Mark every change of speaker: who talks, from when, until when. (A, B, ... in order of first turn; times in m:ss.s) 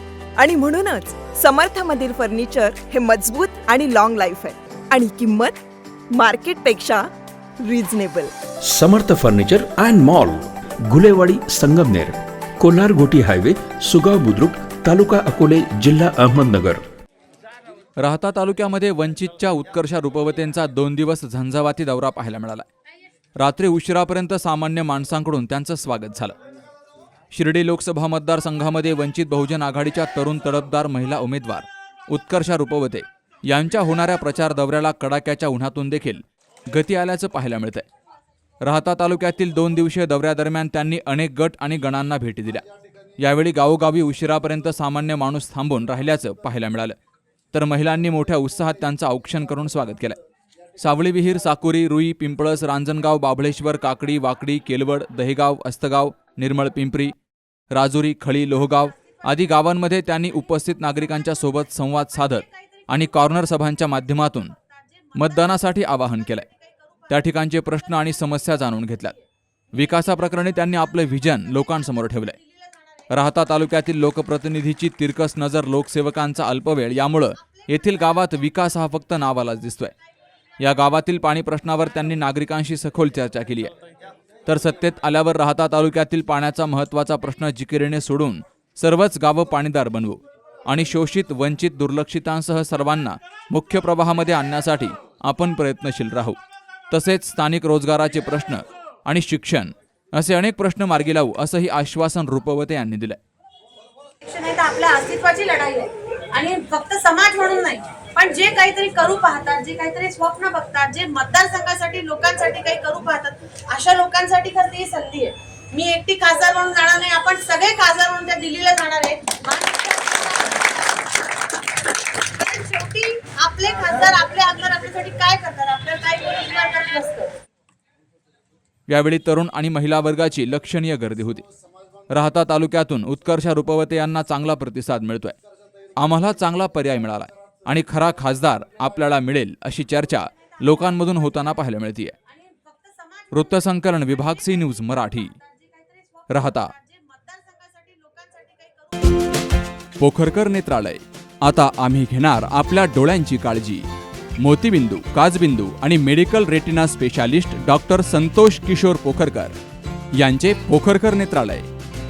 0:00.4-0:05.6 A
0:06.1-0:07.1 A
0:07.6-0:08.3 A
0:08.6-0:16.8 B
0:18.0-0:22.7 C
0:23.4-0:26.3 C
0:27.3-0:37.8 C
0:38.6-0:42.6 C
0:43.2-0:47.0 C
0:47.5-0:50.2 C
0:50.8-0:57.1 C
0:57.7-1:04.6 C
1:05.2-1:06.5 C
1:07.1-1:09.2 C
1:09.7-1:12.4 C
1:13.1-1:19.9 C
1:20.6-1:23.7 C
1:24.5-1:36.4 C
1:36.9-1:43.2 C
1:44.2-2:01.1 D
2:02.2-2:07.4 D
2:08.9-2:11.4 C
2:12.1-2:15.4 C
2:16.0-2:22.2 C
2:22.5-2:23.3 D
2:23.3-2:25.3 C
2:25.4-2:29.2 D
2:26.3-2:26.7 C
2:30.0-2:33.9 C
2:34.4-2:39.6 C
2:40.2-2:41.7 C